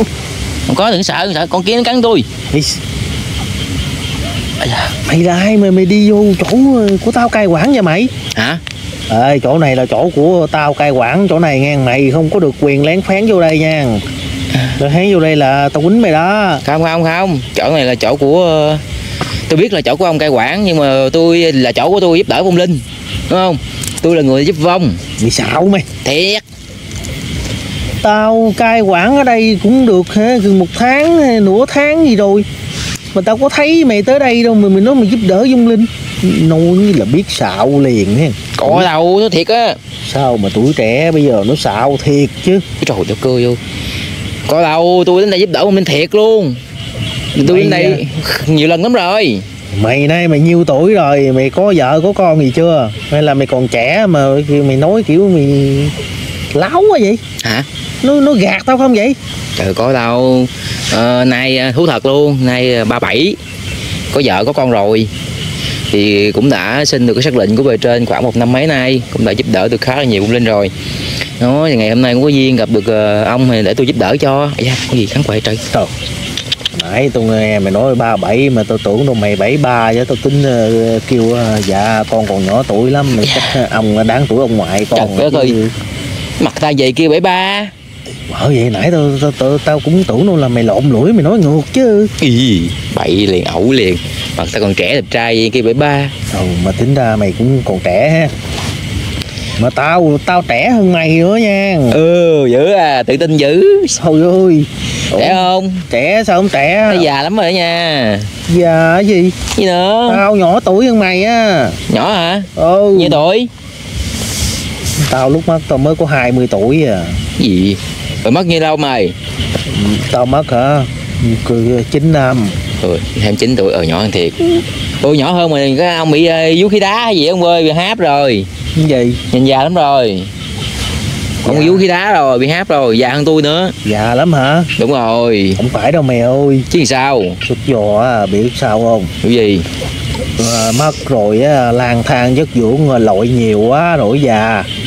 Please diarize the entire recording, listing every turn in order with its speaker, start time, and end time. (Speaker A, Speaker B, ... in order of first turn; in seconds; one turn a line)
Speaker A: 0.7-2.3
Speaker B: 2.5-2.8
Speaker A: 4.6-4.9
Speaker B: 5.0-8.1
Speaker A: 8.3-8.6
Speaker B: 9.1-14.0
Speaker B: 14.8-16.6
Speaker A: 16.6-18.8
Speaker A: 19.5-25.0
Speaker B: 25.2-25.9
Speaker A: 26.0-26.4
Speaker B: 28.0-32.5
Speaker B: 33.1-38.9
Speaker A: 38.6-39.8
Speaker B: 40.0-42.6
Speaker A: 42.8-43.6
Speaker A: 44.5-46.6
Speaker A: 47.3-49.5
Speaker B: 47.4-48.0
Speaker B: 49.7-55.9
Speaker B: 56.5-57.2
Speaker A: 57.4-57.7
Speaker B: 58.0-59.2
Speaker A: 59.6-63.4
Speaker A: 64.1-65.1
Speaker A: 65.9-70.7
Speaker A: 71.4-75.6
Speaker B: 76.7-85.7
Speaker A: 83.2-83.5
Speaker A: 84.9-85.6
Speaker A: 86.4-87.7
Speaker B: 88.3-92.1
Speaker A: 92.2-96.1
Speaker B: 96.3-98.3
Speaker B: 99.6-102.0
Speaker A: 101.9-104.0
Speaker B: 104.0-107.1
Speaker A: 105.1-105.9
Speaker A: 106.9-108.3
Speaker B: 108.5-109.4
Speaker A: 109.5-110.2
Speaker B: 110.1-111.8
Speaker A: 111.9-113.5
Speaker B: 112.5-113.2
Speaker B: 115.0-117.2
Speaker A: 117.4-119.2
Speaker B: 119.7-122.5
Speaker A: 122.8-128.5
Speaker B: 128.8-129.2
Speaker A: 129.3-130.3
Speaker B: 131.4-131.8
Speaker A: 131.4-133.7
Speaker B: 133.8-134.7
Speaker A: 134.8-135.6
Speaker B: 135.6-136.7
Speaker A: 136.7-137.4
Speaker B: 137.4-139.1
Speaker A: 139.2-139.7
Speaker B: 140.4-144.7